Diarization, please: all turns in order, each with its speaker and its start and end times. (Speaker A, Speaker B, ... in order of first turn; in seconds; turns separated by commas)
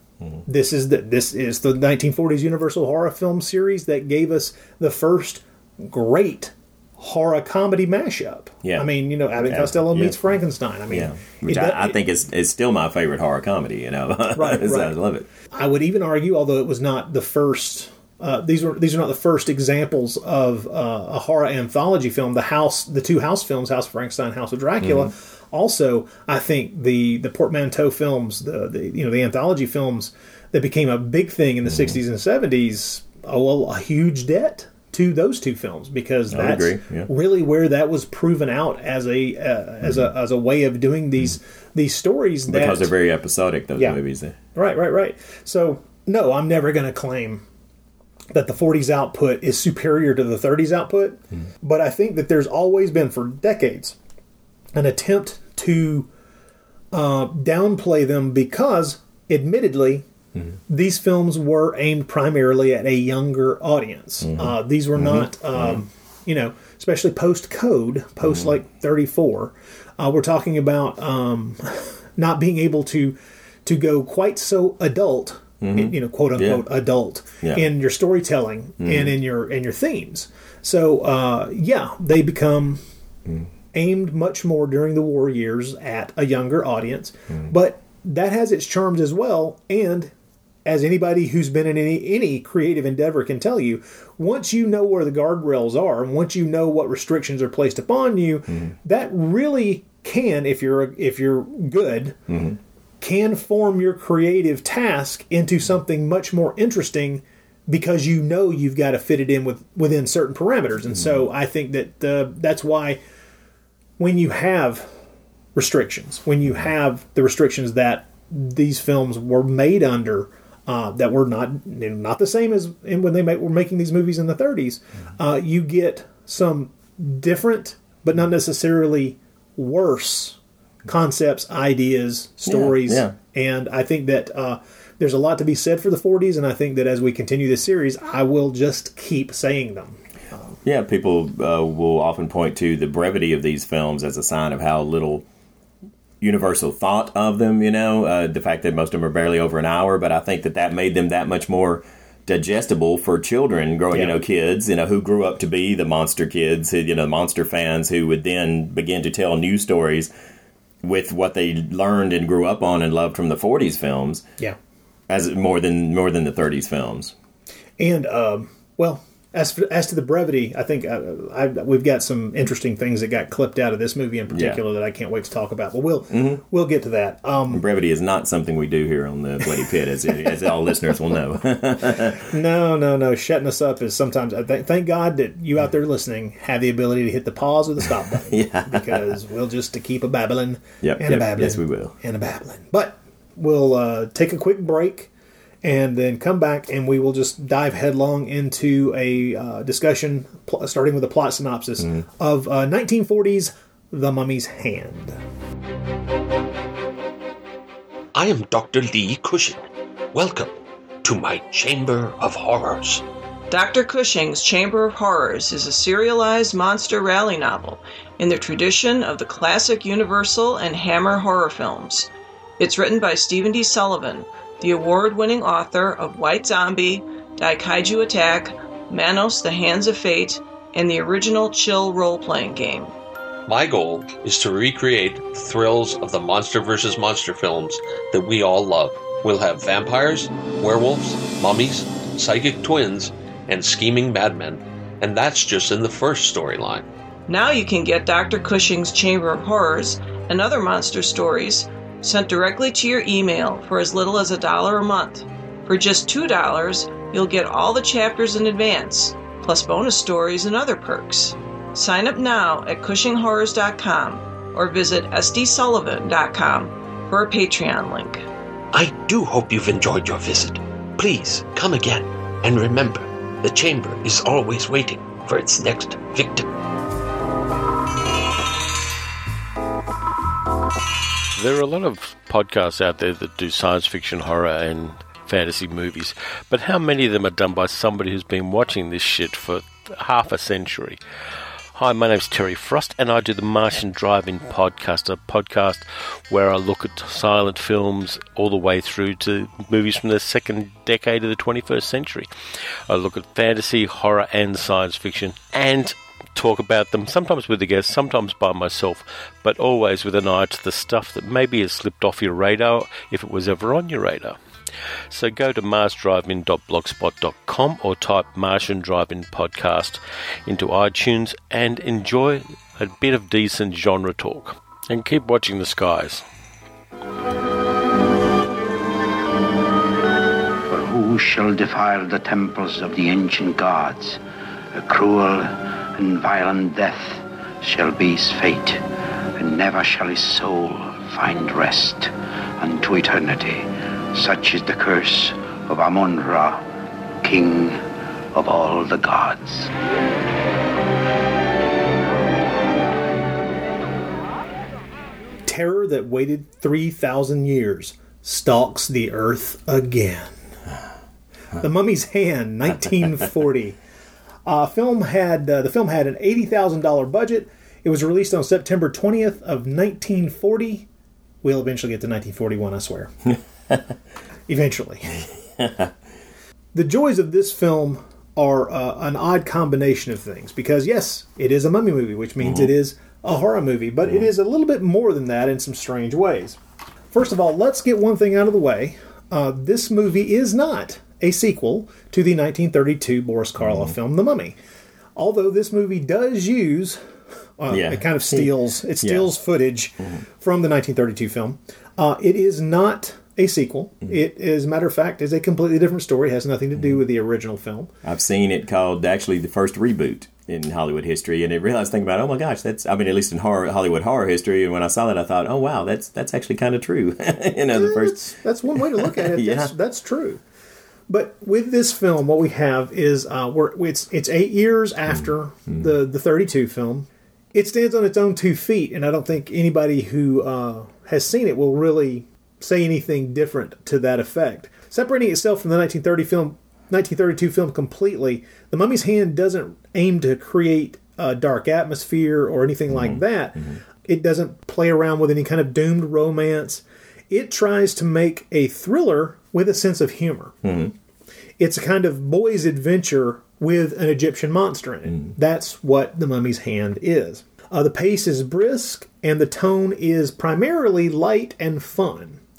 Speaker A: 0.4-12.0, Speaker B: 8.6-10.2, Speaker B: 10.9-15.3, Speaker A: 14.3-14.9, Speaker A: 15.5-42.9, Speaker B: 24.8-25.1, Speaker B: 36.3-37.1, Speaker B: 42.5-44.4, Speaker A: 44.5-47.4, Speaker A: 48.3-54.0, Speaker A: 54.7-56.1, Speaker A: 56.9-60.0, Speaker A: 60.7-82.8, Speaker B: 64.2-65.8, Speaker B: 68.2-68.5, Speaker B: 75.6-76.6, Speaker B: 78.8-79.1, Speaker A: 83.7-90.1, Speaker A: 90.6-102.2, Speaker B: 102.3-102.6, Speaker A: 103.0-113.0, Speaker A: 114.0-114.9, Speaker A: 115.5-140.5, Speaker B: 132.4-133.1, Speaker B: 140.6-145.2, Speaker B: 146.2-160.1, Speaker B: 160.8-164.2, Speaker B: 165.1-167.1, Speaker A: 167.8-177.6, Speaker B: 174.3-174.6, Speaker B: 176.1-176.4, Speaker B: 177.5-182.3, Speaker A: 181.9-195.1, Speaker B: 188.3-189.2, Speaker B: 190.8-191.9, Speaker A: 195.6-205.2, Speaker C: 208.1-209.6, Speaker C: 210.1-210.5, Speaker C: 211.0-213.0, Speaker D: 213.5-232.9, Speaker C: 233.5-246.8, Speaker D: 247.3-268.2, Speaker C: 268.7-276.4, Speaker E: 281.4-291.0, Speaker E: 291.7-302.3, Speaker E: 302.9-314.4, Speaker E: 315.1-326.2, Speaker F: 330.7-334.2, Speaker F: 334.7-338.8, Speaker F: 339.4-346.6, Speaker F: 347.2-347.8, Speaker F: 348.3-349.7, Speaker A: 355.5-360.3, Speaker A: 361.6-363.8, Speaker A: 364.4-370.9, Speaker A: 371.4-373.1, Speaker A: 374.5-375.2, Speaker B: 375.6-375.9, Speaker A: 376.7-386.6, Speaker B: 382.4-382.7, Speaker A: 387.1-394.5, Speaker B: 393.6-393.9, Speaker A: 395.1-397.0, Speaker A: 397.6-407.9, Speaker B: 397.7-399.3, Speaker B: 408.0-419.7, Speaker A: 417.7-420.4, Speaker A: 421.1-450.6, Speaker B: 442.9-443.8, Speaker B: 450.6-450.9, Speaker A: 451.6-462.4